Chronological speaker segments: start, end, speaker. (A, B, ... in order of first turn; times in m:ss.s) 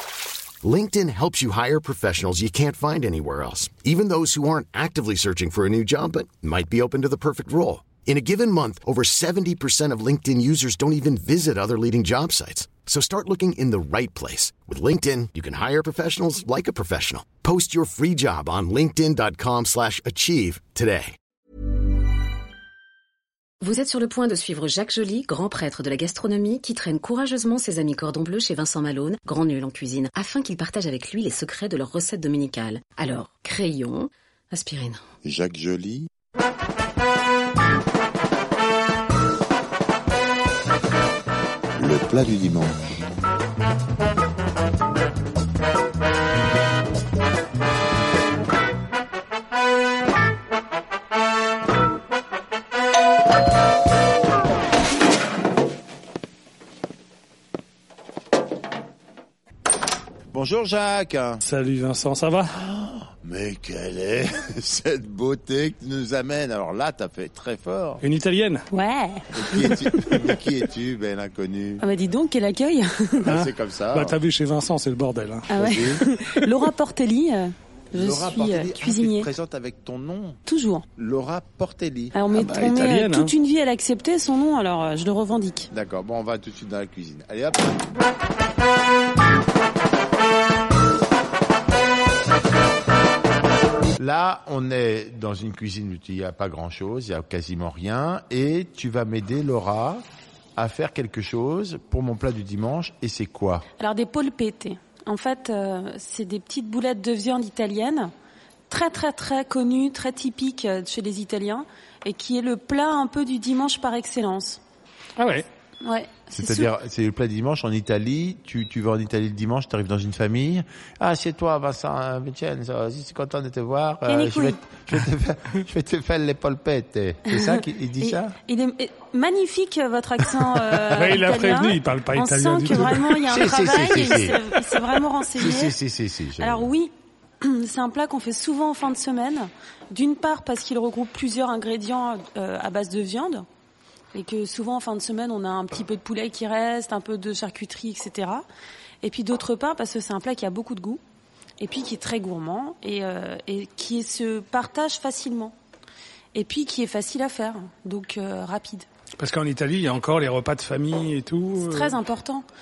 0:00.6-0:21.2 A
0:23.6-0:35.0 B
0:35.2-0:36.1 C
0:41.8-0:42.8 C
1:00.3-1:01.4 C
1:01.4-1:02.5 D
1:02.5-1:08.0 C
1:08.0-1:08.7 D
1:08.7-1:09.6 E
1:09.3-1:11.8 C
1:09.5-1:10.3 D
1:11.8-1:13.3 E
1:13.2-1:14.2 C
1:13.2-1:16.7 D
1:15.5-1:19.3 E
1:15.6-1:16.0 C
1:17.9-1:20.4 C
1:20.4-1:20.8 E
1:20.9-1:22.9 C
1:22.1-1:25.7 E
1:22.4-1:23.3 D
1:25.7-1:27.9 C
1:34.0-1:40.0 C
1:40.6-1:43.7 C
1:43.8-1:48.1 E
1:48.7-1:54.6 E
1:55.2-1:55.4 D
1:55.8-1:56.7 E
1:56.3-2:08.4 C
2:04.0-2:04.6 E
2:07.3-2:15.7 E
2:10.7-2:13.2 D
2:13.3-2:14.8 C
2:15.3-2:16.7 C
2:16.4-2:23.4 E
2:24.1-2:28.4 E
2:29.0-2:31.0 E
2:31.6-2:35.5 E
2:36.3-2:38.9 E
2:39.2-2:42.0 D
2:41.6-2:42.4 E